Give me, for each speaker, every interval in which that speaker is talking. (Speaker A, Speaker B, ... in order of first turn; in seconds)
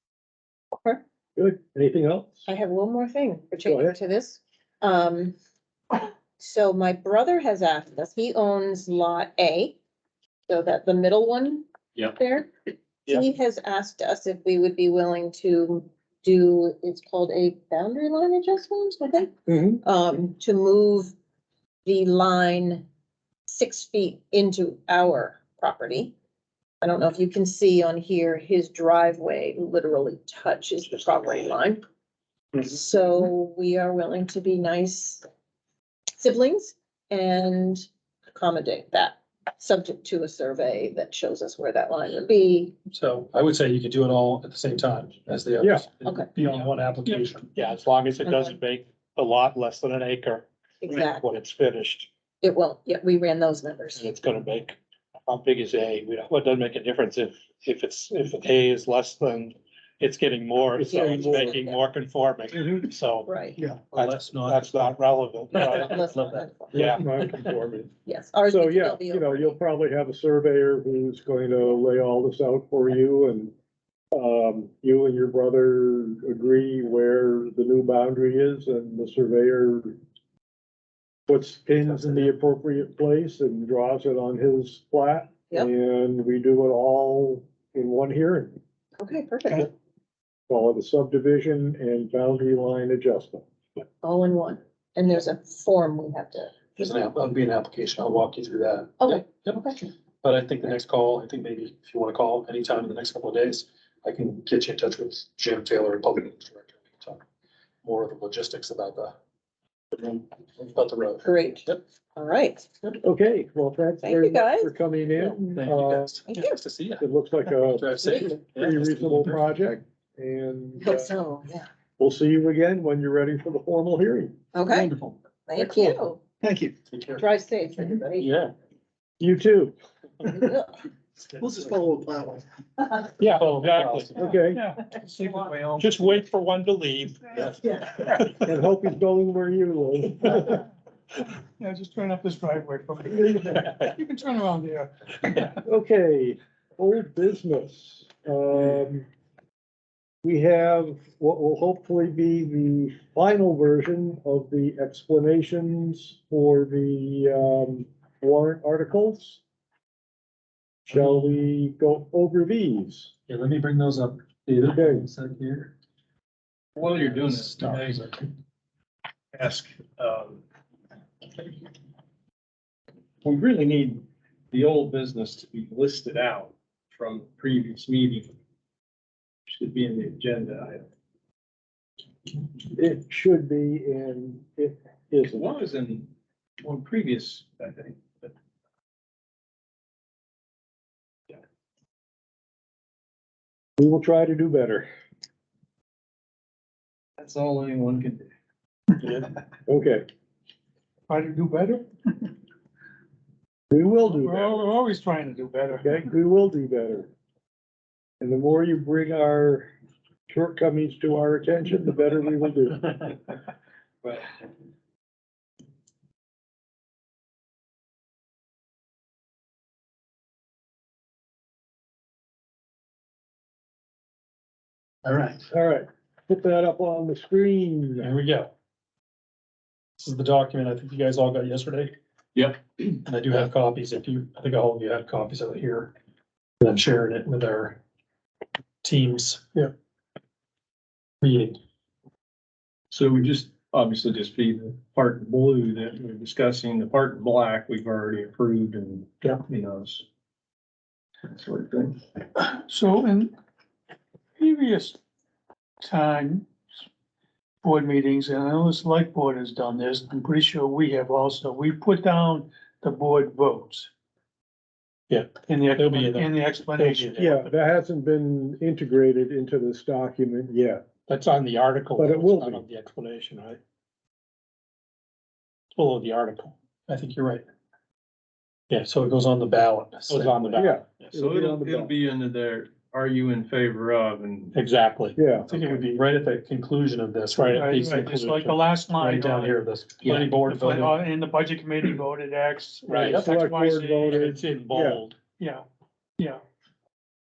Speaker A: 1.4-2.5, 3.6-4.0, 19.5-19.8, 45.6-45.9, 60.8-61.6, 66.7-67.9, 68.5-73.5, 74.1-80.0, 81.3-88.6, 90.5-93.4, 113.0-116.2, 117.0-121.1, 122.0-124.3, 129.2-129.7, 134.1-134.6, 138.4-140.6, 145.6-149.1, 150.2-159.4, 160.9-163.1, 164.6-165.0, 182.7-185.4, 193.8-194.9, 199.2-200.1, 203.7-204.6, 205.7-207.1, 208.2-209.7, 210.3-213.1, 225.5-228.1, 267.1-270.8, 272.0-272.6, 280.6-281.9, 285.2-285.6, 292.9-295.0
Speaker B: 2.5-5.3, 6.4-9.8, 10.5-12.5, 13.1-21.1, 21.9-22.8, 23.5-26.1, 26.8-31.8, 32.5-35.2, 36.2-42.7, 46.0-46.3, 48.2-48.6, 50.8-51.3, 52.4-54.1, 60.9-61.8, 63.2-63.6, 65.5-67.0, 68.0-69.6, 89.0-89.7, 94.0-96.8, 99.0-99.8, 111.2-112.7, 114.0-114.7, 116.3-116.6, 120.8-121.7, 124.5-124.9, 125.5-126.2, 127.2-128.4, 130.2-130.7, 137.6-137.9
Speaker C: 42.9-47.5, 63.6-64.9, 65.5-66.5, 96.8-99.6, 100.2-107.2, 107.8-109.1, 110.0-111.8, 115.2-117.0, 117.6-119.4, 124.7-125.2, 126.4-127.1, 128.2-128.5, 131.3-132.4, 133.2-134.4, 160.9-161.3, 163.3-165.7, 166.9-168.3, 225.0-225.4, 228.0-228.5, 230.0-231.9, 232.8-235.9, 236.6-237.8, 238.8-239.7, 241.2-241.6, 276.9-277.4, 278.7-281.1, 285.5-287.6, 288.9-290.9
Speaker D: 47.5-52.1, 53.9-63.4, 63.9-66.0, 66.8-67.0, 133.2-134.2, 135.8-137.3, 265.1-267.3, 271.1-273.6, 275.7-276.5, 280.1-280.7, 284.5-285.2, 287.3-288.6, 290.0-290.4, 292.9-293.2, 294.1-295.2
Speaker E: 134.4-136.0, 141.4-145.5, 201.1-202.3, 204.1-206.0, 252.4-253.3, 254.4-254.9, 255.8-256.5, 257.6-263.9, 265.4-267.4, 287.5-294.4, 295.4-295.6
Speaker F: 166.8-168.0, 169.3-170.4, 173.2-178.3, 179.5-180.8, 185.3-188.3, 197.2-198.3, 232.3-232.6, 242.9-250.0, 251.2-252.0, 281.1-284.6